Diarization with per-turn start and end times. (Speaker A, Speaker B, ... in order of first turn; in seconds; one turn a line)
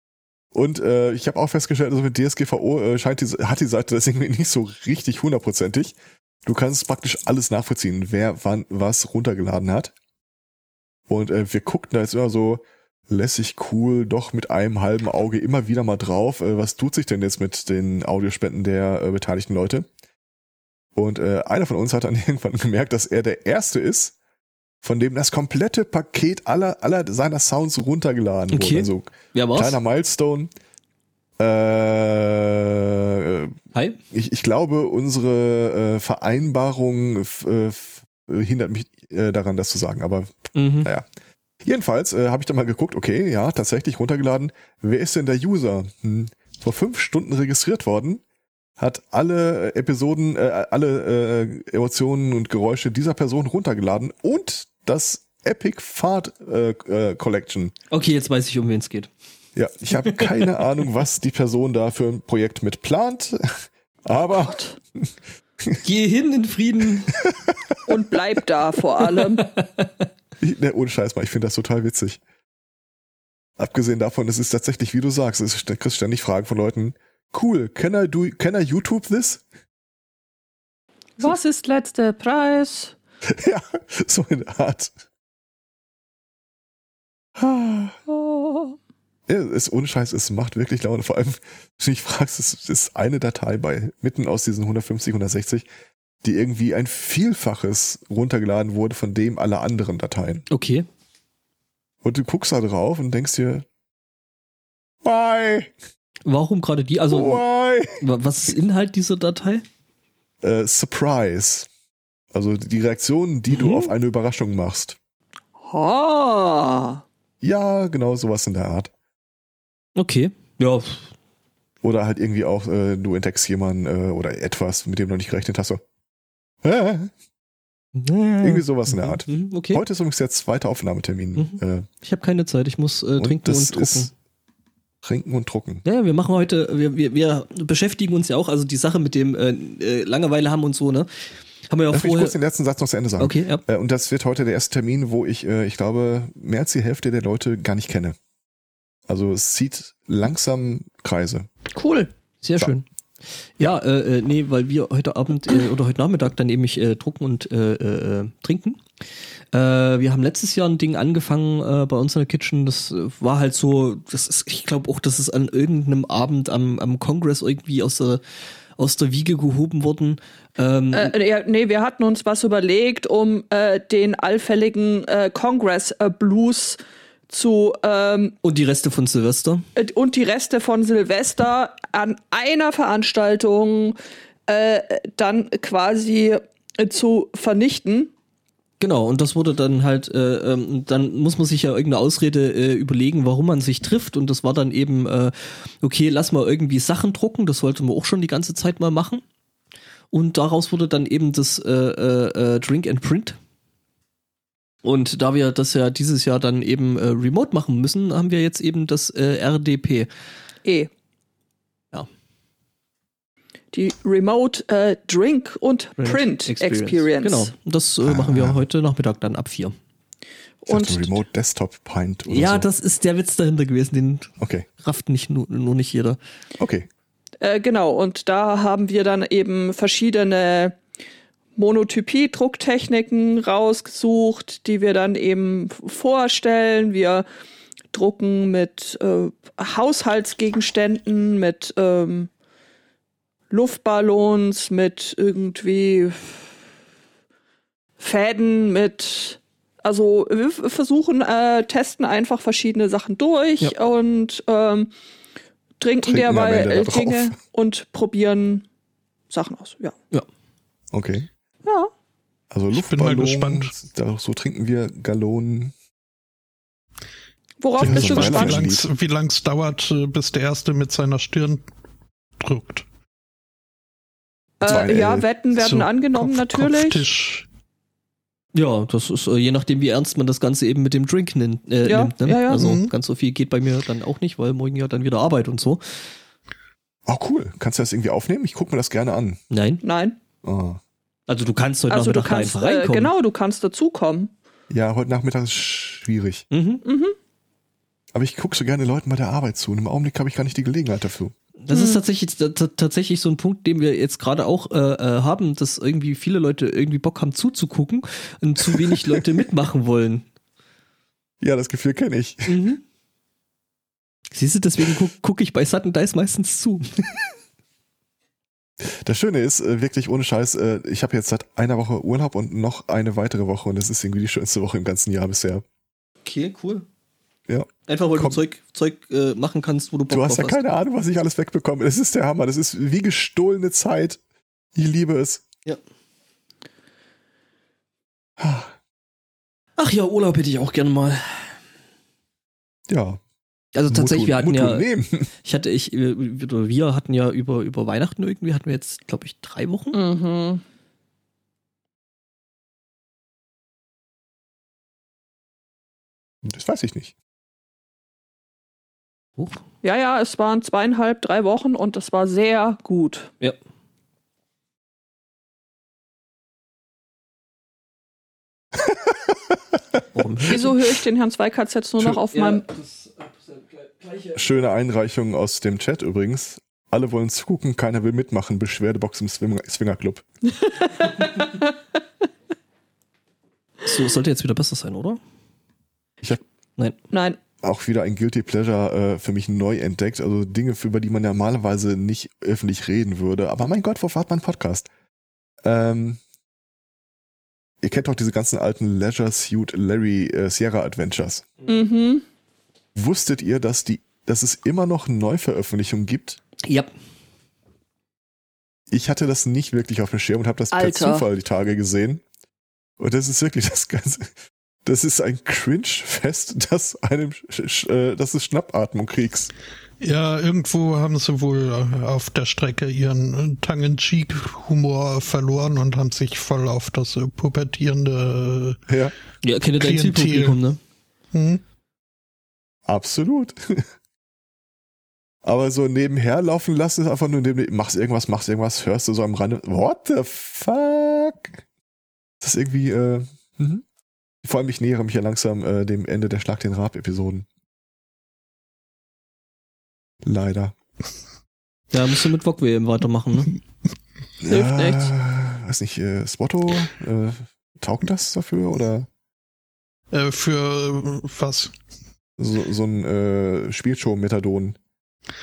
Speaker A: 0.5-9.9
Speaker A: 11.1-19.9
Speaker A: 20.9-24.1
Speaker A: 24.8-30.5
Speaker B: 28.5-29.8
Speaker A: 31.4-33.6
Speaker B: 33.7-34.0
Speaker A: 34.1-41.1
Speaker B: 40.5-40.9
Speaker A: 41.6-48.2
Speaker A: 48.8-57.7
Speaker B: 57.9-59.1
Speaker A: 59.6-65.1
Speaker B: 60.0-60.3
Speaker C: 64.4-64.7
Speaker B: 65.8-67.1
Speaker A: 67.2-67.7
Speaker C: 67.8-69.5
Speaker B: 69.4-70.1
Speaker A: 70.4-72.2
Speaker A: 73.6-79.4
Speaker C: 81.2-82.9
Speaker A: 83.3-84.9
Speaker A: 87.4-88.0
Speaker C: 88.1-88.8
Speaker A: 89.3-95.7
Speaker A: 96.2-100.5
Speaker B: 100.5-100.9
Speaker A: 102.0-103.7
Speaker A: 105.0-105.7
Speaker B: 106.2-107.4
Speaker A: 107.1-108.0
Speaker B: 108.0-109.6
Speaker A: 110.4-111.7
Speaker A: 112.3-115.0
Speaker B: 113.5-113.9
Speaker C: 115.6-117.0
Speaker A: 117.4-118.9
Speaker B: 120.0-121.1
Speaker A: 121.8-125.8
Speaker A: 126.6-127.1
Speaker B: 127.9-129.8
Speaker A: 128.4-131.9
Speaker B: 131.4-134.1
Speaker A: 133.2-134.1
Speaker A: 135.0-135.8
Speaker B: 135.8-141.1
Speaker B: 141.7-142.4
Speaker A: 141.9-148.2
Speaker B: 143.2-143.6
Speaker A: 149.1-151.5
Speaker C: 151.7-152.1
Speaker B: 152.4-152.8
Speaker B: 153.6-158.8
Speaker B: 159.5-168.2
Speaker B: 168.8-171.1
Speaker C: 170.9-178.4
Speaker B: 178.4-179.6
Speaker C: 179.8-183.9
Speaker C: 184.5-188.1
Speaker B: 188.8-199.2
Speaker B: 200.1-203.4
Speaker B: 204.8-210.1
Speaker C: 213.7-217.5
Speaker B: 216.0-219.7
Speaker A: 218.0-218.6
Speaker C: 220.6-221.1
Speaker A: 220.7-222.7
Speaker B: 222.3-226.2
Speaker A: 224.4-224.7
Speaker A: 226.6-226.9
Speaker C: 227.4-230.8
Speaker C: 231.6-237.2
Speaker C: 237.9-242.3
Speaker C: 243.5-246.4
Speaker C: 248.0-254.9
Speaker C: 255.8-258.6
Speaker A: 256.0-257.4
Speaker C: 259.3-259.9
Speaker A: 260.9-261.3
Speaker C: 261.6-261.9
Speaker A: 262.5-265.7
Speaker D: 262.7-263.7
Speaker C: 267.6-268.7
Speaker D: 267.8-271.6
Speaker A: 267.8-268.9
Speaker D: 272.4-272.9
Speaker C: 274.6-277.0
Speaker A: 274.6-275.3
Speaker D: 275.6-277.4
Speaker B: 278.5-285.8
Speaker C: 281.8-282.7
Speaker D: 282.5-282.9
Speaker A: 287.1-289.4
Speaker B: 289.5-289.8
Speaker C: 289.8-290.2
Speaker A: 290.4-290.8
Speaker B: 291.3-293.1
Speaker C: 291.9-294.3
Speaker A: 294.7-296.4
Speaker B: 296.5-296.8
Speaker C: 296.9-297.1
Speaker A: 298.1-301.4
Speaker B: 301.6-310.3
Speaker C: 301.7-302.0
Speaker A: 308.7-309.2
Speaker A: 311.4-312.6
Speaker B: 312.5-312.8
Speaker B: 314.3-317.1
Speaker A: 318.8-325.6
Speaker B: 326.2-326.9
Speaker A: 327.5-328.4
Speaker B: 327.9-330.6
Speaker A: 330.1-334.2
Speaker A: 334.7-335.4
Speaker A: 338.4-338.7
Speaker B: 339.8-341.6
Speaker A: 342.9-343.2
Speaker B: 343.7-344.9
Speaker A: 343.9-345.3
Speaker B: 345.4-350.0
Speaker C: 349.9-350.6
Speaker A: 356.4-357.1
Speaker C: 359.8-363.3
Speaker A: 368.8-369.6
Speaker B: 370.1-370.6
Speaker C: 370.5-372.6
Speaker B: 372.3-374.4
Speaker A: 374.4-380.2
Speaker C: 380.6-381.7
Speaker B: 383.9-385.2
Speaker C: 387.1-387.4
Speaker A: 387.6-394.9
Speaker A: 395.6-396.2
Speaker A: 397.8-401.5
Speaker C: 401.7-402.2
Speaker A: 402.9-406.4
Speaker B: 406.6-406.9
Speaker A: 408.9-412.2
Speaker C: 410.7-411.2
Speaker A: 413.0-414.3
Speaker A: 414.9-419.5
Speaker D: 420.0-428.8
Speaker A: 428.9-429.1
Speaker B: 429.4-430.8
Speaker D: 429.8-430.6
Speaker D: 431.3-431.6
Speaker A: 432.9-433.9
Speaker A: 435.4-441.6
Speaker A: 442.4-443.8
Speaker A: 444.4-447.5
Speaker A: 450.2-450.8
Speaker B: 451.9-453.5
Speaker A: 454.4-459.1
Speaker C: 454.5-455.1
Speaker D: 460.1-461.7
Speaker A: 462.4-464.8